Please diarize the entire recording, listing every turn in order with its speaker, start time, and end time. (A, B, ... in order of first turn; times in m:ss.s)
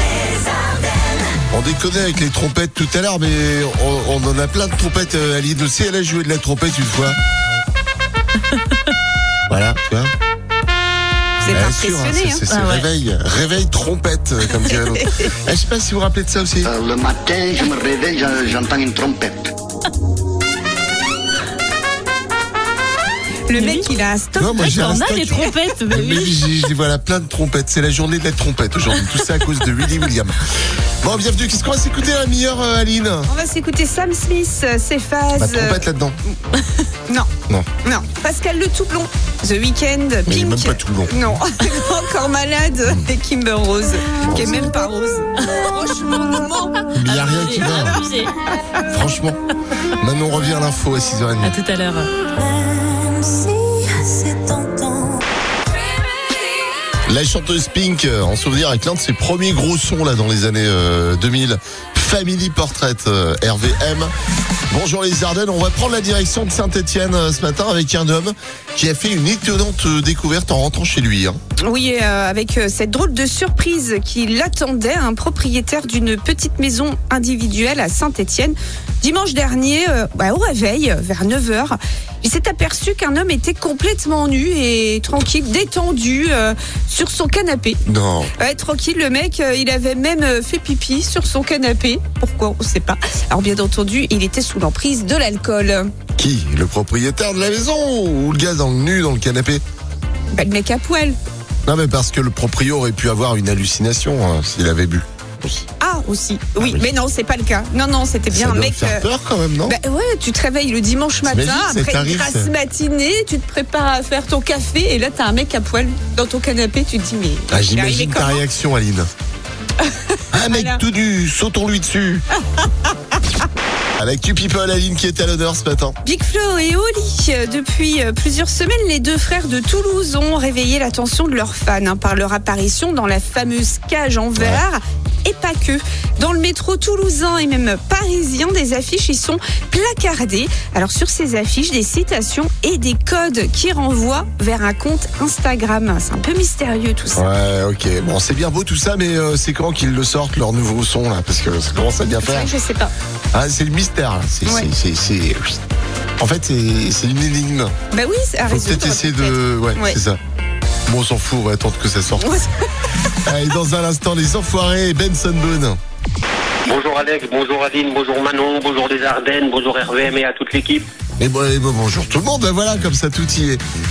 0:01.5-0:07.2 A
0:09.5-0:10.1 A
0:11.4-0:12.4 B
0:11.5-0:16.7 A
0:12.5-0:12.9 C
0:16.6-0:19.6 D
0:23.5-0:25.0 B
0:23.5-0:23.9 C
0:24.4-0:30.4 A
0:24.6-0:26.4 C
0:31.0-0:33.3 A
0:33.3-0:36.4 B
0:35.4-0:36.2 A
0:37.8-0:46.8 B
0:40.3-0:41.2 A
0:44.2-0:44.8 A
0:47.0-0:48.0 A
0:47.1-0:48.3 C
0:48.9-0:49.4 A
0:50.0-0:51.6 A
0:51.4-0:55.2 C
0:57.1-1:04.1 A
1:04.7-1:11.4 A
1:11.6-1:27.8 B
1:27.9-1:28.3 A
1:28.4-1:35.9 B
1:36.2-1:39.6 A
1:40.3-1:41.2 B
1:41.7-1:45.7 A
1:45.8-1:49.1 B
1:46.6-1:46.9 A
1:48.3-1:49.8 A
1:49.7-1:58.4 B
1:51.2-1:52.5 A
1:57.5-1:59.1 A
1:59.8-2:00.8 B
2:00.3-2:02.2 A
2:02.6-2:02.8 B
2:04.0-2:06.0 A
2:06.0-2:27.2 B
2:14.4-2:14.6 A
2:27.2-2:32.5 A
2:32.2-2:32.9 B
2:33.3-2:35.6 A
2:36.2-2:37.7 A
2:37.9-2:40.0 B
2:38.5-2:40.2 A
2:40.9-2:42.3 A
2:42.2-2:42.5 B
2:43.3-2:45.8 A
2:46.7-2:50.9 E
2:51.2-2:53.6 A